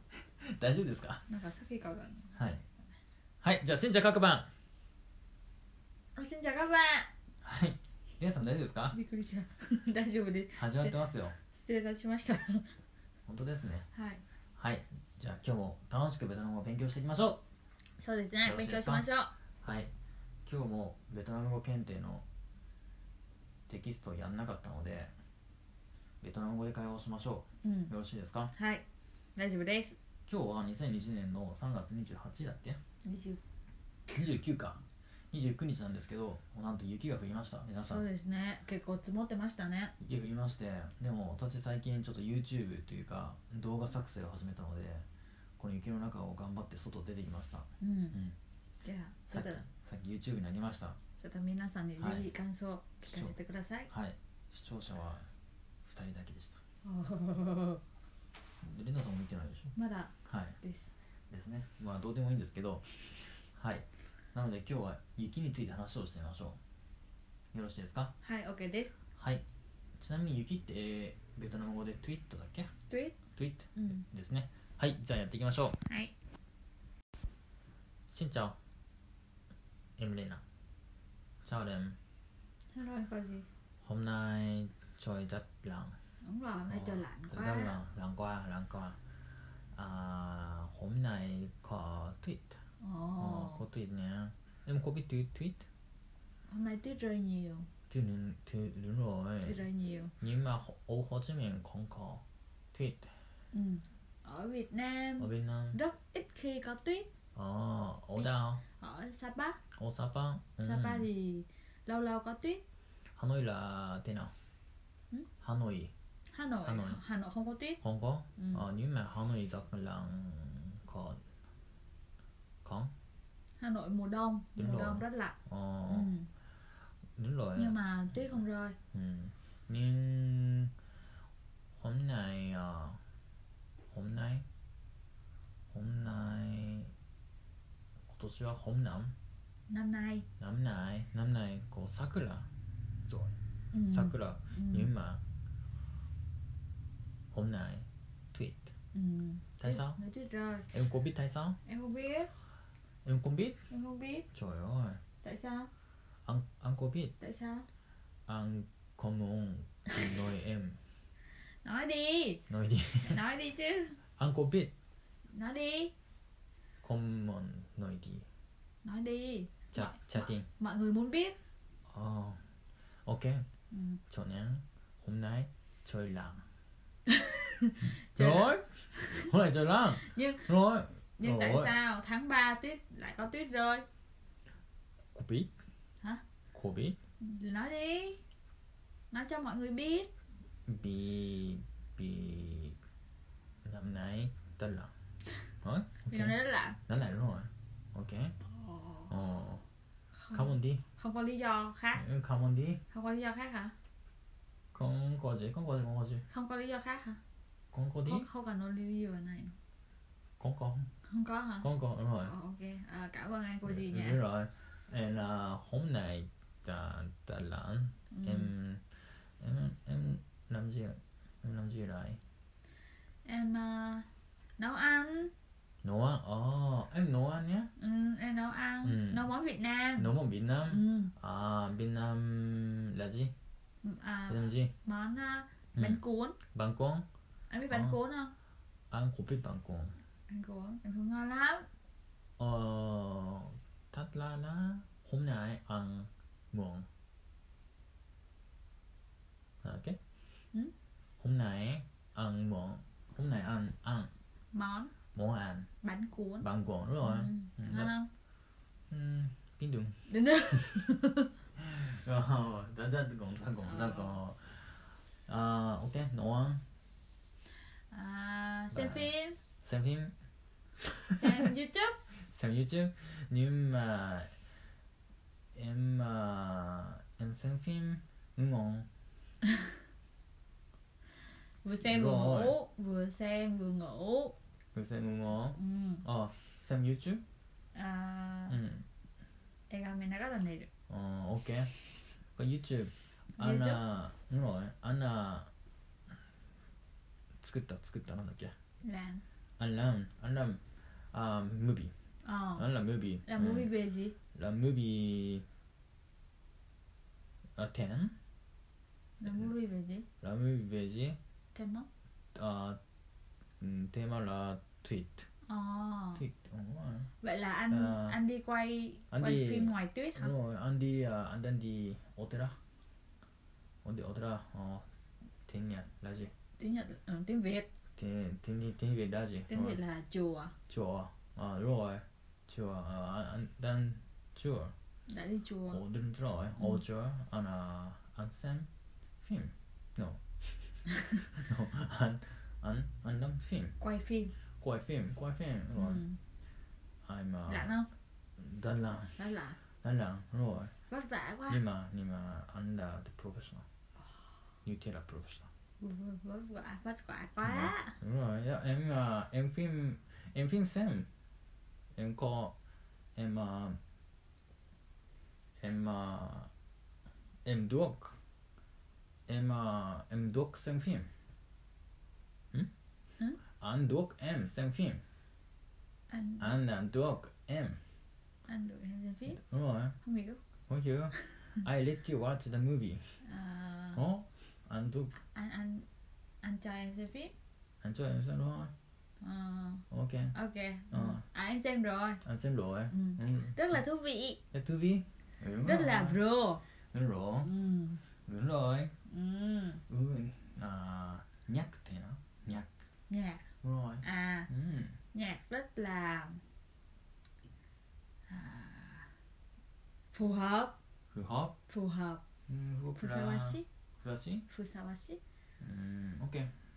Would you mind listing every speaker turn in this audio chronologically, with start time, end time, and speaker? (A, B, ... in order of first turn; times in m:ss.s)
0:00.4-0:01.2 A
0:01.3-0:02.3 B
0:02.3-0:02.6 A
0:03.4-0:04.5 A
0:06.1-0:07.1 B
0:07.4-0:09.0 A
0:08.9-0:12.7 B
0:10.5-0:11.4 A
0:13.3-0:13.9 A
0:13.9-0:14.2 B
0:14.6-0:17.4 A
0:18.0-0:19.3 B
0:18.4-0:19.1 A
0:19.6-0:19.9 A
0:20.4-0:22.2 A
0:23.7-0:25.1 A
0:26.2-0:28.5 A
0:27.6-0:27.9 B
0:28.5-0:28.8 B
0:29.4-0:30.0 B
0:30.3-0:32.8 A
0:33.0-0:33.4 B
0:34.1-0:38.0 A
0:37.8-0:39.9 B
0:40.0-0:45.0 A
0:45.6-0:48.4 A
0:47.8-0:48.2 B
0:48.8-0:49.6 B
0:49.3-0:51.0 A
0:51.2-0:53.9 B
0:52.0-0:52.3 A
0:53.0-0:53.3 A
0:53.9-0:55.3 A
0:55.8-0:56.6 A
0:56.8-0:57.8 B
0:58.6-0:59.7 A
0:59.7-1:00.9 B
1:00.2-1:00.6 A
1:01.3-1:06.6 A
1:07.5-1:08.1 A
1:08.2-1:09.0 B
1:09.2-1:09.4 A
1:10.0-1:12.7 A
1:12.9-1:13.2 B
1:13.3-1:15.8 A
1:15.8-1:16.1 B
1:18.1-1:18.6 A
1:20.0-1:20.4 A
1:21.4-1:22.0 A
1:22.7-1:23.5 B
1:23.8-1:26.0 A
1:26.2-1:27.8 B
1:26.7-1:29.0 A
1:29.7-1:32.6 A
1:32.8-1:33.6 B
1:33.2-1:35.6 A
1:36.5-1:37.7 B
1:37.9-1:39.6 A
1:39.4-1:40.1 B
1:40.2-1:43.1 A
1:43.5-1:47.1 B
1:45.2-1:45.8 A
1:47.3-1:48.6 A
1:48.8-1:49.6 B
1:49.8-1:51.1 A
1:50.6-1:52.6 B
1:53.2-1:54.3 A
1:55.4-1:55.9 A
1:56.3-1:57.8 B
1:56.6-1:57.0 A
1:57.8-2:01.2 A
1:58.4-1:58.6 B
2:02.6-2:02.9 A
2:03.6-2:05.4 B
2:04.6-2:06.1 A
2:05.9-2:06.3 B
2:07.2-2:07.8 A
2:07.5-2:08.8 B
2:08.9-2:10.7 A
2:11.7-2:13.0 A
2:13.9-2:14.4 A
2:15.7-2:16.9 A
2:18.1-2:19.1 A
2:19.7-2:20.3 B
2:20.4-2:22.5 A
2:23.1-2:23.3 A
2:23.7-2:24.9 B
2:23.8-2:25.2 A
2:27.3-2:28.7 A
2:28.9-2:30.7 B
2:29.6-2:30.0 A
2:30.7-2:31.6 A
2:31.6-2:32.3 B
2:33.0-2:33.6 A
2:33.7-2:34.3 B
2:34.3-2:35.0 A
2:35.2-2:35.7 B
2:36.2-2:37.1 A
2:37.2-2:37.7 B
2:38.3-2:40.8 A
2:41.6-2:42.4 B
2:42.5-2:43.2 A
2:43.0-2:44.0 B
2:44.2-2:44.7 A
2:45.3-2:45.9 B
2:46.8-2:48.2 A
2:48.8-2:51.4 B
2:49.7-2:50.5 A
2:51.9-2:52.4 A
2:53.0-2:53.4 A
2:53.7-2:54.0 B
2:54.1-2:56.4 A
2:57.1-2:59.3 B
2:58.1-3:01.8 A
2:59.9-3:00.5 B
3:01.2-3:03.8 B
3:05.1-3:05.5 A
3:06.5-3:07.0 A
3:07.2-3:08.2 B
3:09.1-3:10.1 B
3:10.7-3:12.8 A
3:13.6-3:14.9 A
3:15.6-3:16.4 A
3:16.1-3:16.8 B
3:16.9-3:18.3 A
3:18.6-3:19.1 B
3:19.1-3:19.6 A
3:20.1-3:22.0 B
3:20.3-3:20.8 A
3:21.9-3:22.8 A
3:22.9-3:23.7 B
3:24.7-3:26.2 A
3:26.3-3:27.2 B
3:27.7-3:28.3 A
3:28.0-3:29.6 B
3:30.4-3:30.9 A
3:31.1-3:31.7 B
3:31.6-3:32.3 A
3:32.2-3:34.2 B
3:33.6-3:42.2 A
3:38.1-3:38.5 B
3:43.2-3:45.3 B
3:45.8-3:47.7 A
3:47.8-3:50.1 B
3:48.8-3:49.3 A
3:50.0-3:53.3 A
3:50.7-3:51.1 B
3:53.8-3:56.4 B
3:54.3-3:54.7 A
3:55.7-3:56.0 A
3:56.5-3:57.0 A
3:57.5-3:58.3 B
3:57.7-3:58.0 A
3:58.9-4:00.0 A
4:00.3-4:01.7 B
4:02.4-4:06.9 A
4:09.6-4:10.0 A
4:11.2-4:14.1 A
4:14.5-4:14.9 B
4:15.1-4:15.7 A
4:15.8-4:16.5 B
4:16.4-4:17.9 A
4:17.0-4:18.1 B
4:18.9-4:20.0 A
4:20.1-4:21.3 B
4:21.6-4:26.6 A
4:23.6-4:24.2 B
4:27.9-4:29.4 B
4:28.7-4:29.1 A
4:29.6-4:30.1 A
4:31.1-4:31.5 A
4:31.1-4:32.0 B
4:32.3-4:34.3 A
4:35.5-4:38.9 A
4:41.6-4:44.4 B
4:41.8-4:42.6 A
4:44.7-4:47.2 A
4:45.6-4:46.0 B
4:47.7-4:48.6 B
4:48.5-4:48.8 A
4:49.7-4:50.7 B
4:50.9-4:51.7 A
4:52.4-4:55.5 A
4:53.4-4:53.8 B
4:57.4-4:58.5 A
4:58.8-4:59.2 B
4:59.6-5:00.6 A
5:01.1-5:01.9 A
5:02.2-5:02.6 B
5:02.6-5:03.7 A
5:03.2-5:04.2 B
5:04.3-5:05.4 A
5:07.6-5:08.1 A
5:09.2-5:10.0 B
5:09.2-5:09.5 A
5:10.2-5:11.2 A
5:11.5-5:11.9 B
5:12.3-5:12.8 A
5:13.6-5:15.3 A
5:15.5-5:16.2 B
5:16.2-5:17.1 A
5:17.2-5:20.3 B
5:17.7-5:18.2 A
5:19.1-5:22.6 A
5:23.8-5:24.8 A
5:25.4-5:26.3 A
5:26.6-5:27.7 B
5:28.0-5:29.8 A
5:29.5-5:30.5 B
5:30.7-5:34.7 A
5:35.1-5:35.8 B
5:35.7-5:38.7 A
5:39.2-5:43.8 A
5:43.8-5:44.3 B
5:44.6-5:46.0 A
5:45.8-5:46.2 B
5:47.0-5:47.7 A
5:47.5-5:47.9 B
5:48.4-5:49.2 A
5:49.2-5:49.6 B
5:49.8-5:50.7 A
5:50.9-5:51.6 B
5:51.5-5:53.6 A
5:54.6-5:55.5 A
5:55.8-5:58.0 B
5:57.4-6:01.1 A
6:02.0-6:02.5 A
6:03.2-6:03.8 A
6:05.6-6:06.5 A
6:07.4-6:08.2 A
6:09.3-6:11.1 A
6:13.6-6:15.0 A
6:16.1-6:16.6 B
6:16.4-6:17.8 A
6:18.5-6:19.4 B
6:19.3-6:20.0 A
6:20.0-6:20.4 B
6:20.7-6:23.2 A
6:23.2-6:24.0 B
6:23.9-6:25.2 A
6:25.2-6:25.9 B
6:26.4-6:27.3 B
6:27.8-6:28.7 A
6:29.2-6:32.2 B
6:29.9-6:30.3 A
6:30.9-6:31.2 A
6:32.2-6:33.8 A
6:32.9-6:34.4 B
6:34.5-6:36.2 A
6:35.6-6:36.6 B
6:36.9-6:37.5 A
6:37.4-6:38.0 B
6:38.3-6:38.9 A
6:39.1-6:39.8 B
6:39.9-6:42.7 A
6:43.1-6:43.4 B
6:43.6-6:45.0 A
6:44.0-6:44.5 B
6:45.1-6:46.4 B
6:48.3-6:49.1 B
6:50.1-6:50.7 B
6:51.1-6:51.6 A
6:51.7-6:52.2 B
6:52.5-6:54.4 A
6:52.9-6:53.6 B
6:54.5-6:55.2 B
6:55.6-6:56.5 A